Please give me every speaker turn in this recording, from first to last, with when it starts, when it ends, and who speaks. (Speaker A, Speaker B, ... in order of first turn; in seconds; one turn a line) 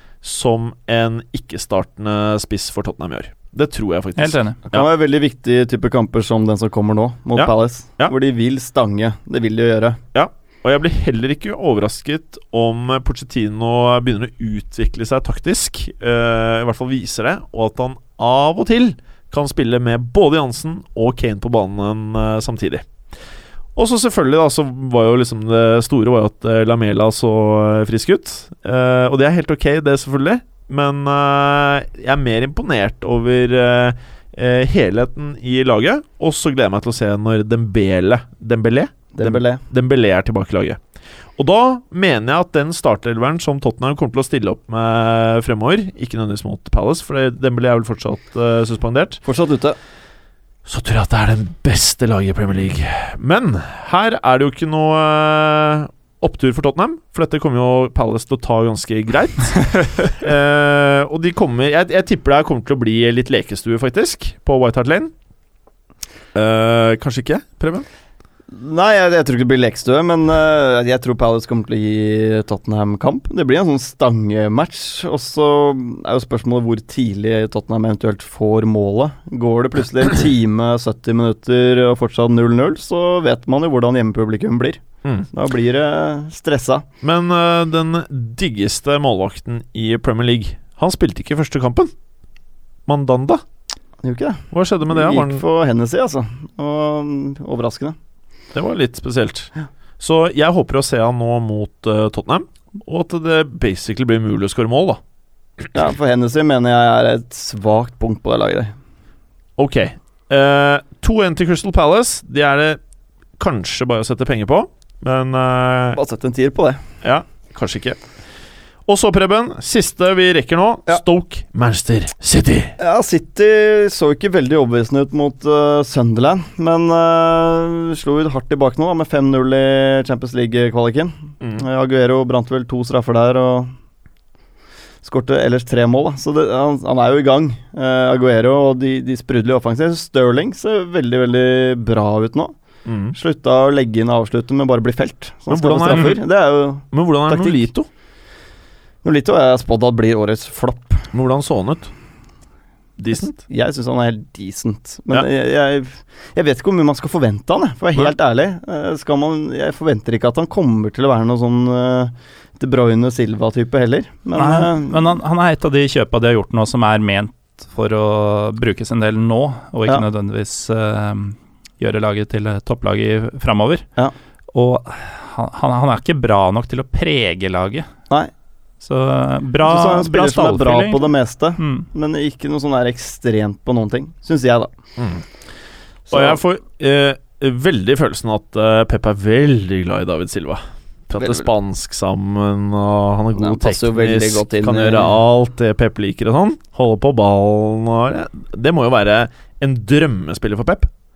Speaker A: 0.2-4.9
Speaker B: 4.2-4.6
Speaker C: 4.7-10.0
Speaker A: 7.4-8.1
Speaker A: 10.1-22.9
Speaker A: 23.8-40.8
Speaker C: 39.1-39.6
Speaker A: 41.4-49.2
Speaker C: 49.2-49.8
Speaker A: 50.6-65.1
Speaker A: 66.3-67.9
Speaker C: 68.5-84.8
Speaker C: 85.3-86.8
Speaker A: 87.0-91.9
Speaker A: 92.9-93.4
Speaker C: 94.0-98.0
Speaker A: 94.5-95.4
Speaker A: 98.5-105.0
Speaker C: 105.7-108.7
Speaker A: 109.6-112.8
Speaker A: 113.4-116.0
Speaker C: 116.0-116.8
Speaker A: 117.0-118.0
Speaker A: 118.9-122.8
Speaker C: 122.8-133.7
Speaker C: 135.0-142.6
Speaker A: 142.8-143.2
Speaker C: 143.1-147.7
Speaker A: 145.5-146.2
Speaker A: 146.9-147.9
Speaker C: 149.0-151.1
Speaker A: 151.1-151.9
Speaker A: 153.0-153.4
Speaker C: 153.4-165.1
Speaker B: 164.3-173.8
Speaker B: 174.5-177.9
Speaker B: 178.8-181.9
Speaker C: 179.6-184.7
Speaker A: 185.0-185.2
Speaker C: 186.1-186.4
Speaker A: 186.1-200.9
Speaker C: 191.2-191.5
Speaker C: 193.3-195.2